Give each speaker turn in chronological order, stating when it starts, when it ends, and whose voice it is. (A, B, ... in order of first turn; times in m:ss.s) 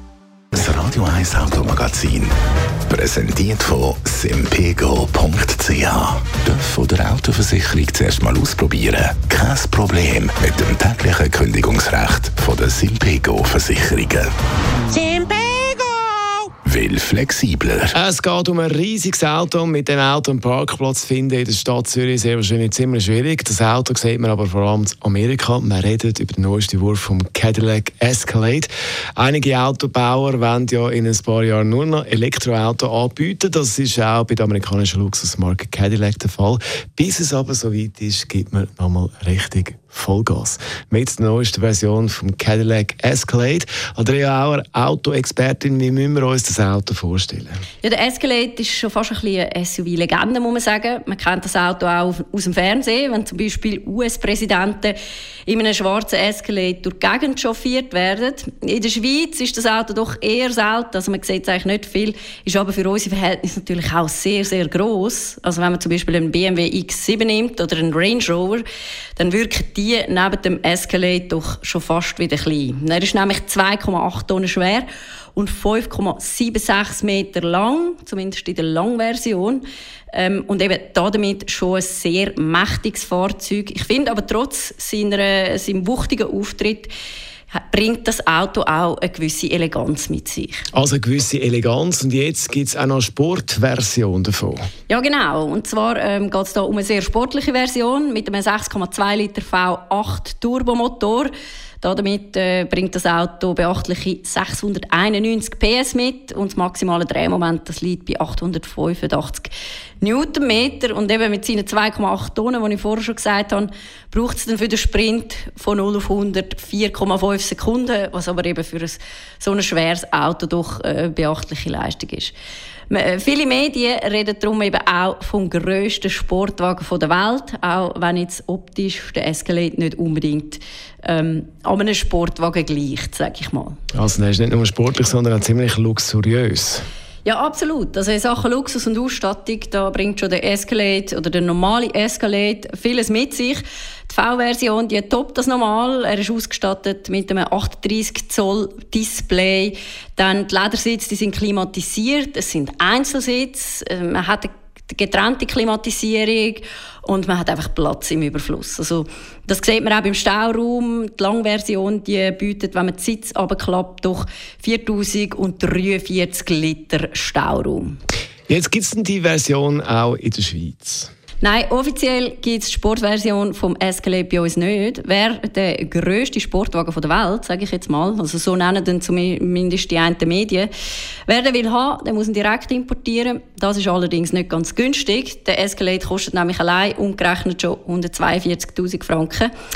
0:00.5-0:02.3 A
0:02.9-0:14.3 A
0:14.9-0:15.6 A
0:16.6-0:18.0 A
0:17.9-0:47.6 B
0:47.8-0:55.0 C
0:55.5-1:08.6 C
1:09.2-1:26.9 C
1:27.5-1:30.6 C
1:30.7-1:34.6 B
1:34.9-2:02.3 C
2:02.9-2:13.8 C
2:13.9-2:16.8 B
2:17.2-2:48.0 C
2:48.5-2:51.1 B
2:51.4-3:00.7 C
3:01.3-3:09.5 C